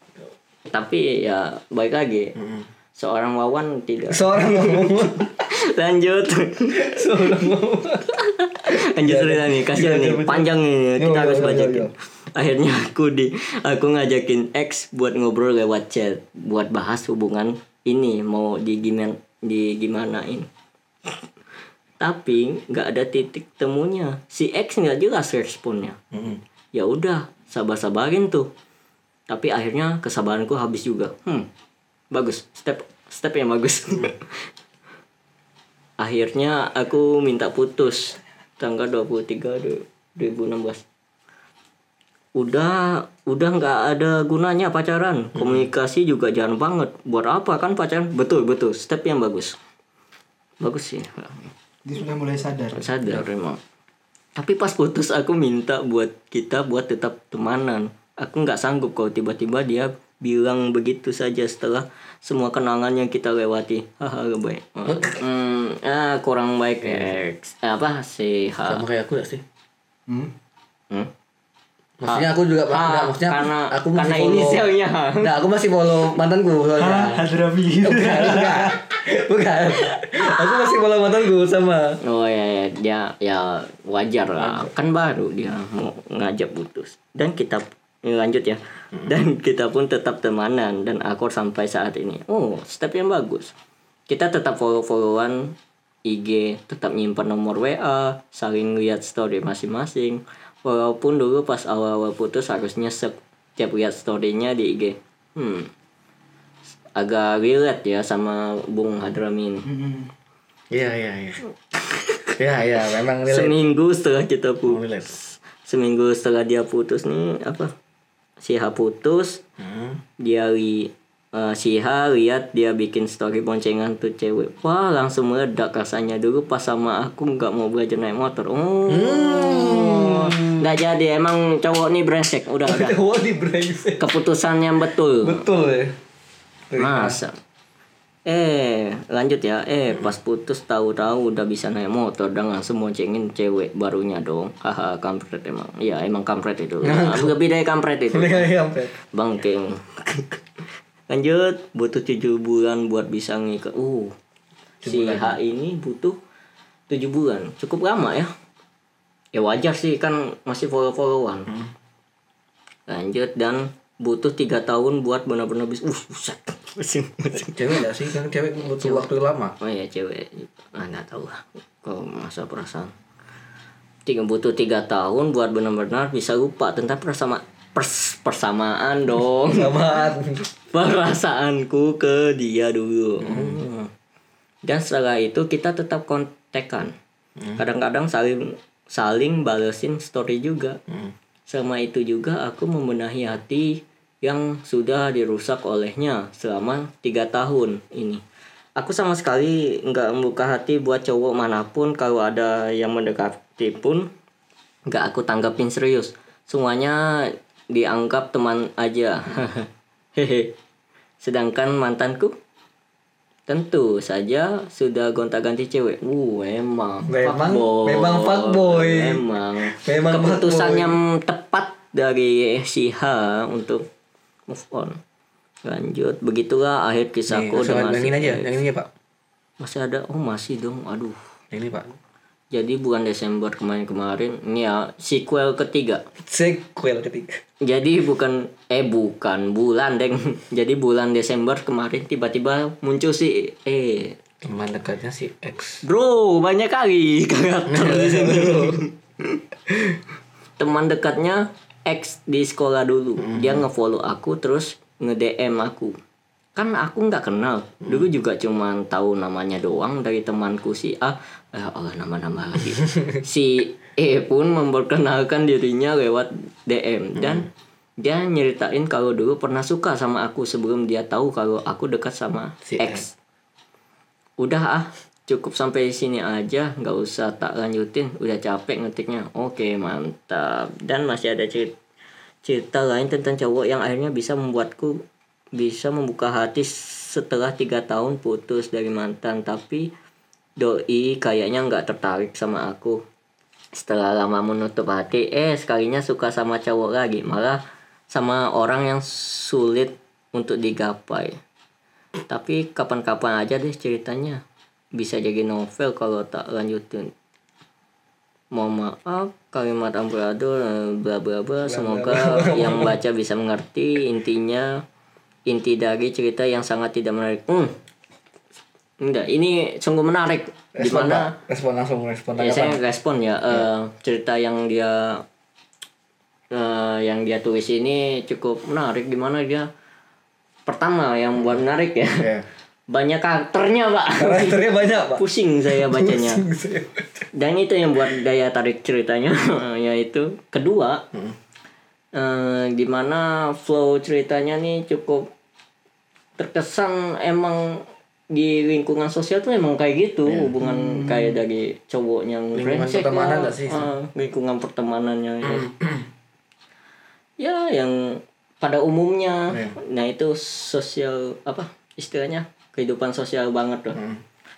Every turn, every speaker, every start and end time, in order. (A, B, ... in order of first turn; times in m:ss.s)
0:00.7-0:02.4 A
0:02.4-0:02.7 B
0:03.0-0:07.4 A
0:04.1-0:05.3 B
0:06.7-0:11.9 B
0:08.2-0:20.5 A
0:22.0-0:26.0 A
0:26.1-0:26.4 B
0:26.7-0:28.5 A
0:29.3-0:31.5 A
0:32.1-0:34.5 A
0:36.0-0:40.8 A
0:42.3-0:49.6 A
0:45.3-0:45.7 B
0:50.6-0:51.5 A
0:51.8-0:53.1 C
0:52.7-0:53.6 A
0:54.4-1:08.8 A
1:04.8-1:05.2 B
1:06.8-1:07.2 B
1:08.6-1:09.4 B
1:10.1-1:10.3 C
1:12.0-1:14.7 B
1:12.1-1:15.3 A
1:15.2-1:17.3 B
1:16.8-1:18.8 C
1:17.8-1:22.0 B
1:20.0-1:20.6 A
1:22.0-1:33.5 A
1:24.4-1:24.7 B
1:34.1-1:45.7 A
1:47.0-1:49.6 A
1:49.6-1:50.1 C
1:50.7-1:51.4 B
1:51.7-1:52.3 A
1:52.4-1:53.6 B
1:53.2-1:57.7 A
1:54.6-1:55.2 B
1:58.4-1:59.4 A
1:59.6-2:00.0 B
2:00.2-2:13.0 A
2:08.9-2:10.7 B
2:12.6-2:14.1 B
2:14.0-2:15.4 A
2:15.2-2:15.9 B
2:16.7-2:17.2 B
2:16.8-2:17.4 A
2:18.2-2:28.5 A
2:26.8-2:27.4 B
2:28.1-2:28.9 B
2:29.1-2:30.4 A
2:31.1-2:34.1 A
2:34.8-2:35.4 B
2:34.8-2:36.2 A
2:36.9-2:38.3 A
2:39.3-2:41.5 A
2:42.9-2:47.9 A
2:47.5-2:49.6 B
2:48.8-2:49.1 A
2:49.6-2:52.9 A
2:54.0-2:59.9 A
2:59.5-3:00.4 B
3:00.7-3:03.9 A
3:03.2-3:03.6 B
3:04.6-3:06.9 A
3:07.6-3:10.8 A
3:11.5-3:18.2 A
3:18.8-3:24.1 A
3:24.9-3:30.5 A
3:31.2-3:32.4 A
3:33.5-3:43.8 A
3:37.0-3:41.0 B
3:44.5-3:45.0 A
3:45.6-3:48.5 A
3:47.3-3:48.9 B
3:49.6-3:51.2 A
3:51.5-3:51.9 B
3:52.5-3:56.0 A
3:56.2-3:57.4 B
3:57.6-4:04.2 A
4:04.4-4:05.8 B
4:05.8-4:09.4 A
4:07.7-4:08.8 B
4:10.6-4:15.9 A
4:13.2-4:13.6 B
4:16.6-4:27.5 A
4:27.2-4:27.4 B
4:28.0-4:33.1 A
4:32.6-4:33.0 B
4:34.4-4:41.7 A
4:42.4-4:45.0 A
4:45.5-4:49.9 A
4:50.6-4:53.0 A
4:53.7-5:01.4 A
5:02.3-5:04.4 A
5:04.9-5:07.1 A
5:08.5-5:14.8 A
5:11.6-5:13.0 B
5:15.5-5:17.7 A
5:19.0-5:21.3 A
5:20.8-5:22.8 B
5:22.4-5:25.2 A
5:26.5-5:29.7 A
5:30.6-5:32.3 A
5:31.4-5:31.6 B
5:32.1-5:32.4 B
5:32.9-5:36.4 A
5:34.1-5:37.3 B
5:37.3-5:41.0 A
5:42.1-5:45.3 A
5:46.4-5:55.7 A
5:50.2-5:50.5 B
5:50.6-5:51.4 C
5:52.5-5:53.9 B
5:55.4-5:56.0 B
5:57.4-6:04.0 A
5:59.5-5:59.7 B
6:03.9-6:04.2 B